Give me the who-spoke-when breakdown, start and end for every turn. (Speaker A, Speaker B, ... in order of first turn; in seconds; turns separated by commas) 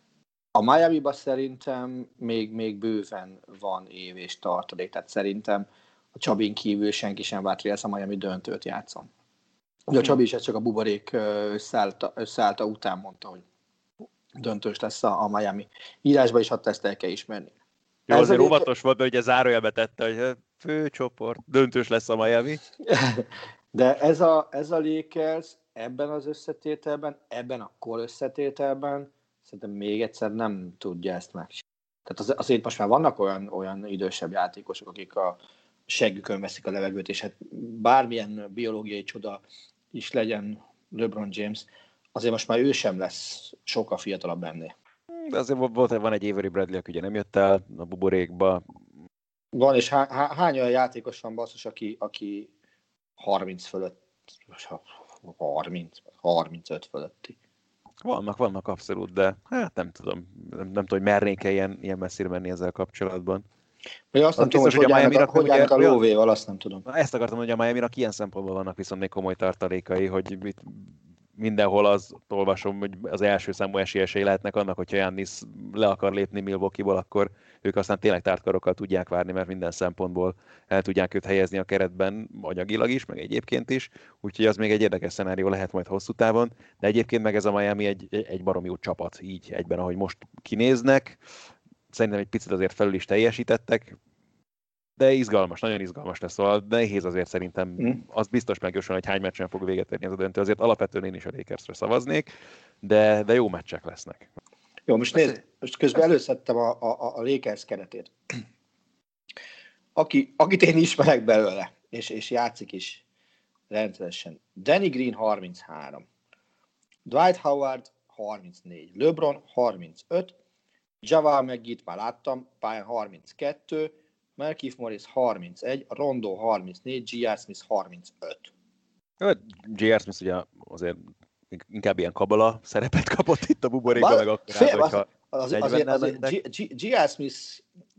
Speaker A: 0.5-9.1, Speaker A: 9.9-13.4, Speaker A: 14.4-17.5, Speaker B: 18.1-22.6, Speaker A: 18.1-18.7, Speaker A: 22.8-39.4, Speaker A: 39.9-44.7, Speaker B: 45.1-48.6, Speaker A: 49.5-52.5, Speaker A: 53.2-57.4, Speaker B: 58.0-63.4, Speaker A: 64.1-66.8, Speaker B: 64.4-66.0, Speaker B: 66.8-91.2, Speaker B: 91.9-94.0, Speaker B: 95.0-102.3, Speaker B: 102.8-104.3, Speaker A: 104.9-108.1, Speaker A: 110.0-113.0, Speaker A: 113.7-116.0, Speaker A: 117.0-120.3, Speaker A: 121.0-128.5, Speaker B: 129.2-136.3, Speaker A: 133.9-137.6